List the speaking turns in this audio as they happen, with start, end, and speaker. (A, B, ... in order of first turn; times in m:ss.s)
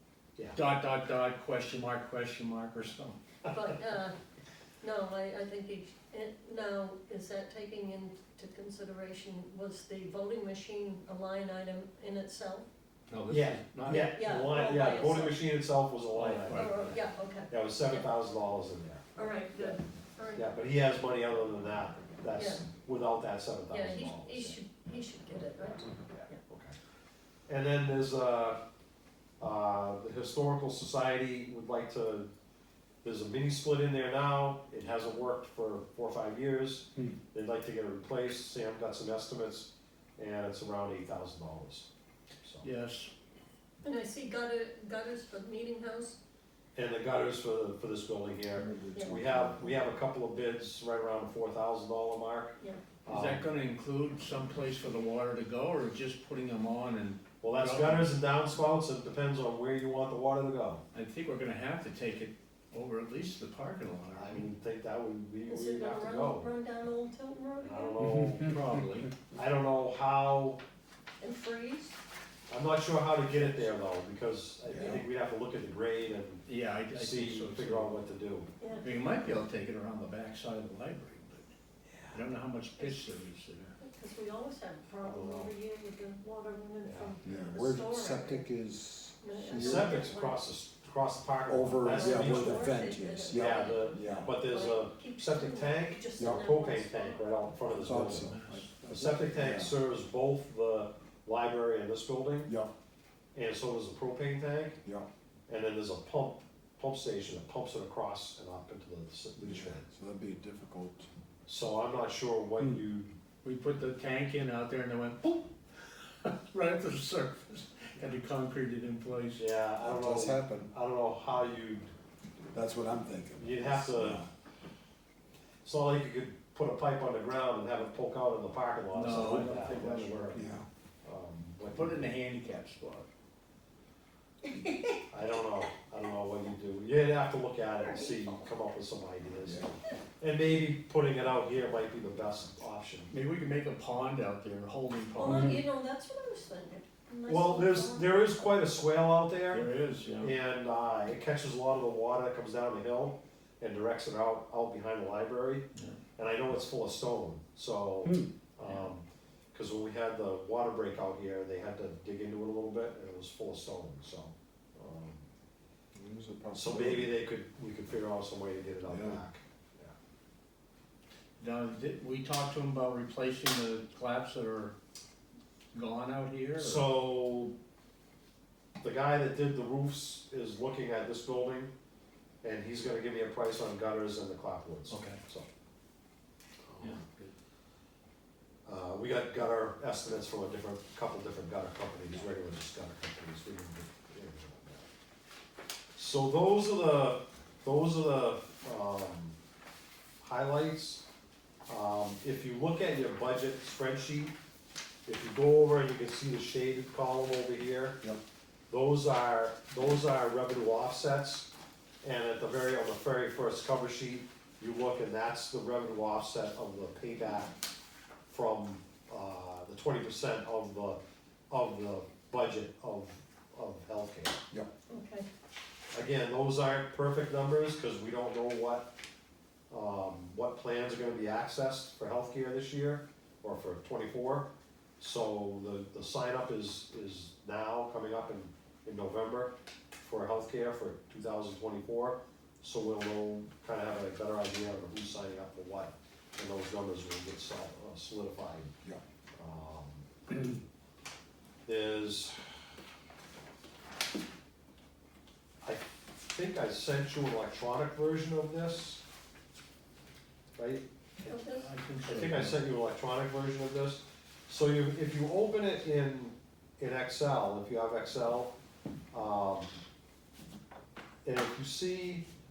0:00.5-0:03.2 A
0:03.5-0:04.1 B
0:04.8-0:12.6 B
0:13.1-0:14.2 A
0:13.3-0:19.8 C
0:13.9-0:15.5 B
0:16.1-0:17.1 A
0:16.5-0:18.1 B
0:19.2-0:20.4 B
0:20.3-0:24.6 C
0:22.3-0:22.6 B
0:23.7-0:26.4 B
0:26.1-0:26.7 C
0:27.5-0:28.6 C
0:29.4-0:32.3 C
0:33.0-0:41.9 C
0:42.4-0:42.7 C
0:42.6-0:43.1 A
0:43.8-0:46.2 B
0:46.8-0:53.5 C
0:48.5-0:49.9 D
0:52.6-0:52.8 B
0:53.1-0:58.2 A
0:57.4-1:00.8 C
1:00.9-1:04.5 A
1:04.1-1:06.5 C
1:05.5-1:08.0 B
1:07.6-1:08.6 C
1:08.0-1:08.4 D
1:08.3-1:09.1 A
1:09.3-1:10.6 C
1:11.2-1:12.0 B
1:12.5-1:18.5 C
1:14.6-1:15.0 D
1:16.4-1:18.0 A
1:18.6-1:18.9 B
1:18.8-1:21.5 A
1:21.8-1:22.2 C
1:22.1-1:23.8 A
1:23.8-1:28.4 B
1:25.0-1:25.5 C
1:26.8-1:27.1 C
1:27.2-1:30.1 D
1:29.2-1:30.4 B
1:29.5-1:32.7 C
1:31.5-1:34.4 D
1:31.8-1:37.3 B
1:33.3-1:38.3 C
1:36.2-1:36.5 D
1:37.6-1:39.8 D
1:37.9-1:38.7 A
1:38.8-1:42.5 C
1:42.4-1:42.7 D
1:43.3-1:44.8 C
1:45.5-1:49.8 C
1:49.4-1:51.1 D
1:51.5-1:53.1 C
1:53.4-1:59.4 A
1:59.4-2:01.9 C
1:59.8-2:00.7 D
2:02.5-2:04.3 D
2:03.4-2:04.2 C
2:05.6-2:10.5 C
2:08.9-2:10.3 A
2:09.1-2:10.6 D
2:11.0-2:12.1 C
2:11.7-2:13.1 A
2:14.5-2:14.9 B
2:15.1-2:23.1 C
2:17.8-2:18.5 B
2:19.4-2:19.7 D
2:23.1-2:25.6 A
2:25.2-2:28.4 B
2:25.2-2:25.5 C
2:27.3-2:29.7 C
2:29.5-2:30.3 A
2:30.2-2:45.2 C
2:38.0-2:38.3 D
2:38.6-2:38.9 A
2:45.9-2:47.1 D
2:46.5-2:49.9 C
2:48.9-2:49.2 D
2:51.4-2:54.7 A
2:55.7-2:56.9 A
2:56.6-2:57.5 C
2:58.8-3:01.7 C
3:02.4-3:05.5 C
3:04.9-3:05.2 A
3:06.7-3:07.0 C
3:06.8-3:07.3 A
3:08.6-3:14.8 C
3:16.0-3:19.4 C
3:20.2-3:21.0 C
3:21.7-3:24.4 C
3:25.0-3:28.0 C
3:28.7-3:31.5 C
3:32.0-3:37.6 C
3:38.3-3:41.0 C
3:41.5-3:44.4 C
3:44.9-3:45.3 B
3:45.9-3:48.9 C
3:49.7-4:08.7 C
4:09.4-4:10.0 C
4:11.6-4:12.4 C
4:15.6-4:19.0 C
4:20.6-4:21.4 C
4:21.2-4:21.7 B
4:21.5-4:22.6 A
4:22.0-4:28.5 C
4:29.1-4:29.8 C
4:31.2-4:32.2 C